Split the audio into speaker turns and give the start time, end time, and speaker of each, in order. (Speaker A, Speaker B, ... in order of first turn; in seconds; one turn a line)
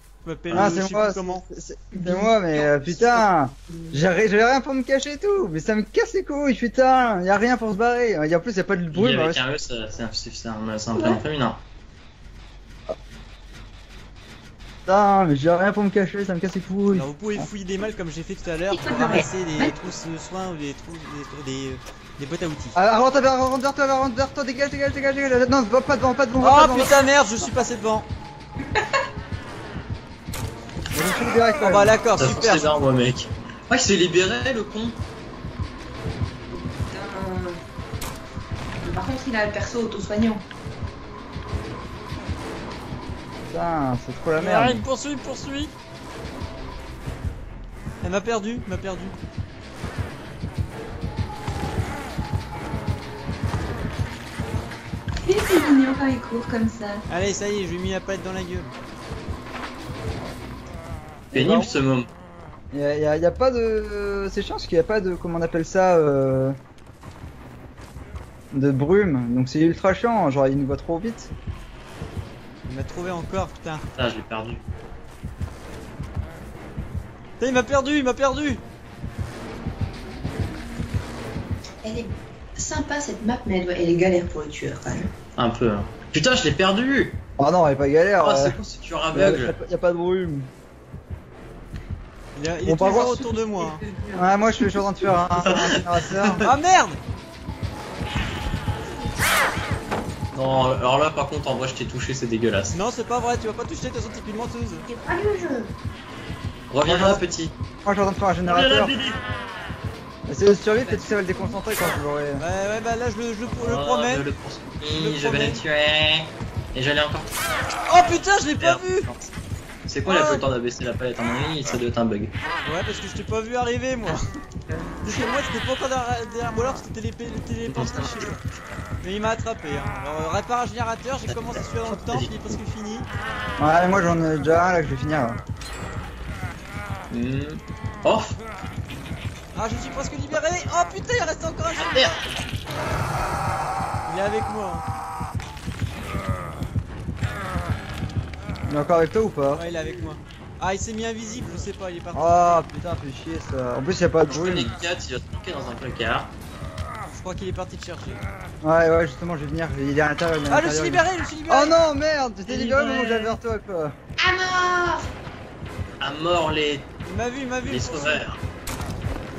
Speaker A: 0.2-1.4
Speaker B: 0.5-0.7
Speaker C: 0.5-9.4
Speaker D: 1.9-4.0
Speaker B: 8.9-11.6
Speaker D: 10.9-11.2
Speaker C: 14.8-17.5
Speaker A: 16.9-22.8
Speaker D: 18.7-19.8
Speaker C: 22.8-27.0
Speaker A: 26.4-28.1
Speaker C: 30.9-32.0
Speaker A: 31.6-32.7
Speaker B: 32.1-35.0
Speaker D: 36.5-37.6
Speaker D: 38.8-40.4
Speaker C: 43.5-44.9
Speaker A: 44.4-45.7
Speaker A: 48.0-49.1
Speaker D: 55.2-57.0
Speaker A: 57.1-58.7
Speaker C: 61.3-61.7
Speaker B: 61.3-62.1
Speaker C: 62.7-66.5
Speaker C: 68.5-71.3
Speaker A: 72.7-73.8
Speaker B: 74.0-74.6
Speaker A: 77.4-78.6
Speaker D: 81.8-85.1
Speaker B: 85.4-87.2
Speaker C: 87.4-88.6
Speaker B: 88.2-89.5
Speaker C: 89.1-90.5
Speaker A: 92.3-93.8
Speaker C: 92.6-93.3
Speaker D: 93.5-94.3
Speaker C: 94.2-96.5
Speaker B: 95.4-96.5
Speaker A: 96.4-97.0
Speaker B: 100.3-102.8
Speaker A: 102.7-104.8
Speaker D: 104.8-105.7
Speaker B: 106.7-107.5
Speaker C: 106.8-107.2
Speaker C: 107.8-108.9
Speaker B: 108.5-109.2
Speaker C: 110.3-112.4
Speaker A: 110.8-111.6
Speaker A: 112.4-114.2
Speaker B: 113.5-117.3
Speaker A: 114.9-115.6
Speaker A: 117.9-119.1
Speaker B: 118.6-119.3
Speaker B: 119.8-122.3
Speaker A: 120.0-120.4
Speaker A: 122.7-124.2
Speaker D: 125.0-125.3
Speaker A: 125.0-128.4
Speaker B: 127.7-128.4
Speaker A: 129.0-133.1
Speaker B: 131.9-132.3
Speaker C: 133.6-135.4
Speaker B: 137.1-138.4
Speaker A: 139.5-142.1
Speaker B: 141.8-142.2
Speaker A: 144.1-144.8
Speaker C: 148.7-149.6
Speaker A: 149.5-152.6
Speaker C: 152.1-154.7
Speaker B: 154.3-156.3
Speaker A: 157.1-158.2
Speaker C: 158.6-163.9
Speaker A: 160.5-161.8
Speaker A: 162.5-163.4
Speaker D: 164.2-165.1
Speaker B: 166.0-166.9
Speaker A: 167.1-168.2
Speaker B: 167.6-168.4